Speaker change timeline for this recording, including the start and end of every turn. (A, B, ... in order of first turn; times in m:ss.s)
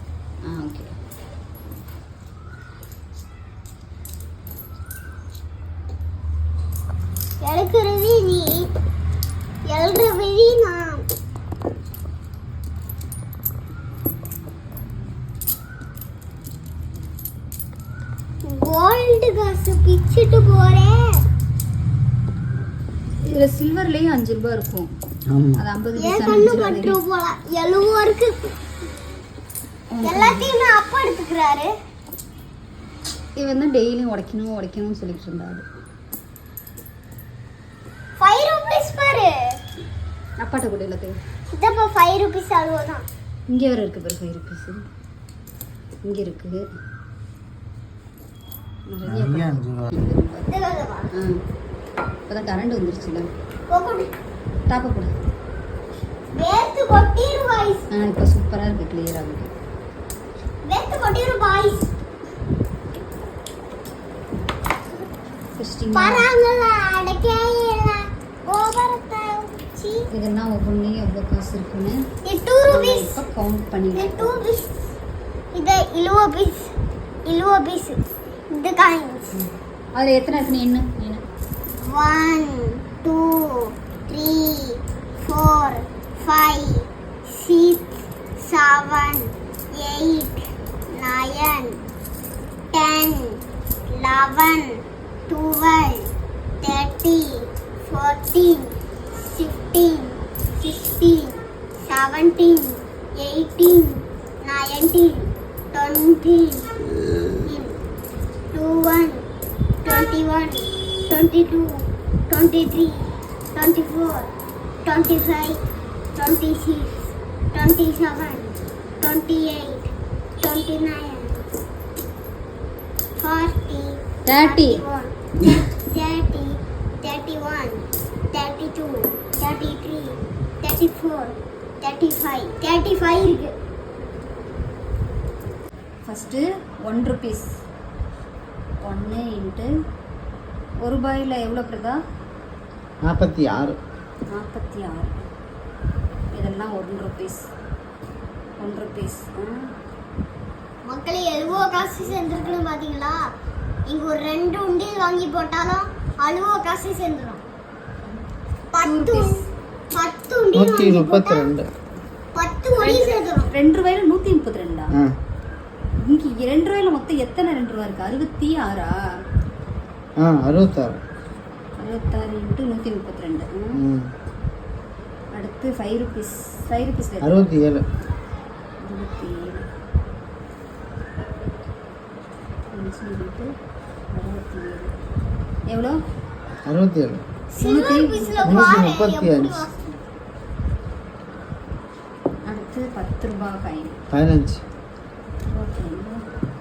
0:00.5-0:00.9 A
0:07.4-0:08.7 B
0:09.6-0:11.0 B
0:18.4-0:21.2 B
0:23.2-0:24.9 A
0:25.3-0:25.6 C
0:25.6-0:27.0 A
0:26.0-0:28.5 B
0:29.9-0:30.5 A
0:30.0-0:31.7 B
0:33.4-0:35.6 A
0:38.2-0:39.6 B
0:40.4-0:41.2 A
0:41.5-0:43.0 B
0:43.5-0:44.9 A
0:46.0-0:46.7 A
0:48.9-0:50.5 A
0:49.0-0:49.9 C
0:50.5-0:51.1 B
0:51.1-0:51.4 A
0:52.3-0:53.3 A
0:53.7-0:54.1 B
0:54.7-0:55.1 A
0:56.3-0:57.9 B
0:57.9-0:59.5 A
1:00.6-1:01.9 B
1:05.6-1:06.3 A
1:06.0-1:10.0 B
1:10.1-1:12.0 A
1:12.2-1:13.2 B
1:12.7-1:14.3 A
1:14.0-1:14.8 B
1:15.5-1:16.7 B
1:17.2-1:19.4 B
1:20.0-1:21.2 A
1:21.8-1:31.8 B
1:32.7-1:36.1 B
1:36.6-1:46.7 B
1:47.4-1:47.8 B
1:48.5-1:49.2 B
1:49.8-1:54.3 B
1:54.8-1:55.6 B
1:56.2-2:01.5 B
2:03.2-2:13.6 B
2:04.3-2:04.8 A
2:16.1-2:17.5 A
2:18.8-2:19.7 A
2:20.8-2:22.0 A
2:23.0-2:23.8 C
2:24.3-2:25.2 A
2:26.3-2:27.4 A
2:28.6-2:29.7 A
2:30.8-2:33.2 B
2:31.7-2:32.5 A
2:33.9-2:37.4 B
2:38.7-2:39.3 B
2:38.8-2:39.4 A
2:39.9-2:41.5 B
2:40.5-2:41.7 C
2:42.4-2:43.5 B
2:42.8-2:44.9 A
2:46.0-2:48.9 A
2:50.2-2:51.0 C
2:51.8-2:53.8 A
2:53.7-2:54.1 C
2:55.3-2:57.5 A
2:57.2-2:57.9 C
2:58.8-2:59.7 A
3:02.7-3:03.5 A
3:04.1-3:04.9 A
3:05.7-3:06.0 A
3:06.6-3:07.2 C
3:07.5-3:09.8 B
3:07.6-3:08.8 A
3:08.4-3:09.7 C
3:12.5-3:14.0 A
3:14.1-3:14.6 C
3:15.5-3:16.2 A